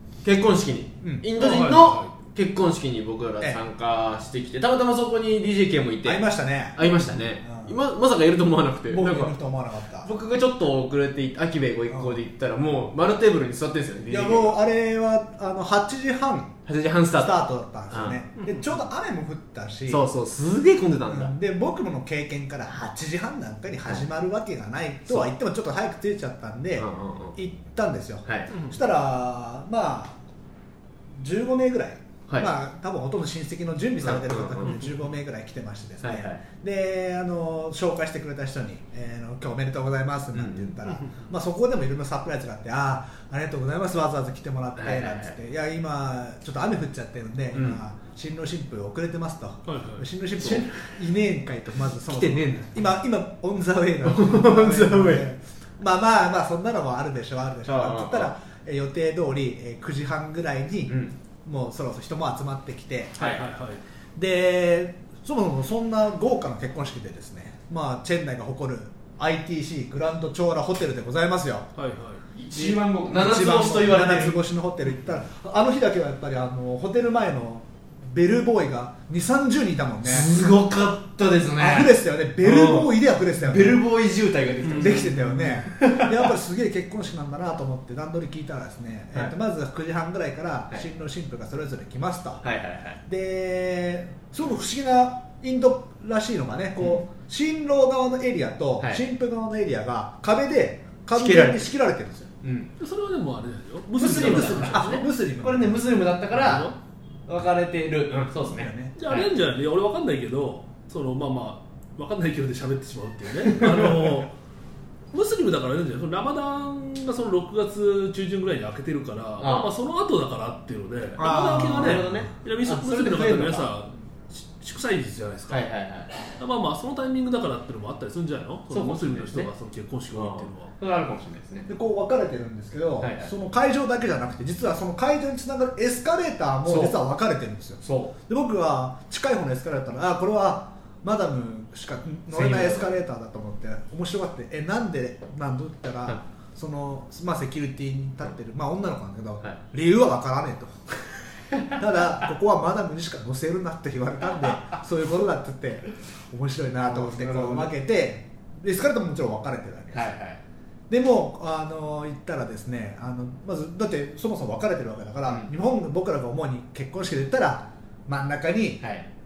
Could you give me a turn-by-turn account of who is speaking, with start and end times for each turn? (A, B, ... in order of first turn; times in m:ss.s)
0:00.2-0:09.4 A
0:01.0-0:01.3 B
0:01.4-0:02.1 C
0:06.0-0:07.8 B
0:08.9-0:10.1 B
0:10.0-0:14.6 A
0:11.9-0:12.2 B
0:14.1-0:16.6 B
0:16.7-0:18.2 A
0:17.2-0:20.1 B
0:18.4-0:18.8 C
0:19.9-0:21.3 A
0:21.1-0:30.2 B
0:26.8-0:27.4 A
0:28.2-0:28.5 A
0:28.5-0:28.8 C
0:31.2-1:03.2 B
0:34.0-0:34.8 A
0:36.0-0:36.4 A
0:40.3-0:40.8 A
0:40.8-0:41.2 C
0:44.8-0:45.4 A
0:47.5-0:47.8 A
0:49.7-0:50.1 C
0:50.4-0:50.9 A
0:52.1-0:52.8 A
0:54.0-0:55.2 A
0:57.6-0:58.3 A
1:00.9-1:01.2 A
1:03.2-1:03.4 A
1:03.2-1:03.8 C
1:04.2-1:11.7 B
1:11.8-1:12.2 C
1:12.3-1:14.4 A
1:12.5-1:20.3 B
1:20.0-1:22.8 A
1:21.6-1:23.8 B
1:23.4-1:26.3 A
1:24.6-1:25.6 C
1:24.8-1:32.4 B
1:32.4-1:33.0 A
1:33.1-1:42.3 B
1:41.1-1:41.7 A
1:42.4-1:42.7 A
1:42.8-1:45.1 C
1:44.0-1:46.7 A
1:44.0-1:45.9 B
1:46.3-1:46.8 C
1:47.3-1:49.3 A
1:48.4-1:48.9 B
1:49.0-1:54.3 C
1:55.1-2:05.6 C
1:59.4-1:59.7 A
2:01.2-2:02.3 B
2:01.2-2:03.7 A
2:05.5-2:06.2 A
2:06.3-2:10.7 C
2:08.7-2:09.5 A
2:10.1-2:11.7 A
2:11.7-2:40.1 B
2:13.0-2:13.3 A
2:16.6-2:17.0 A
2:17.8-2:18.1 A
2:22.3-2:22.9 A
2:31.5-2:31.8 A
2:36.8-2:37.7 A
2:39.9-2:40.4 A
2:40.9-2:48.8 B
2:48.8-2:49.1 A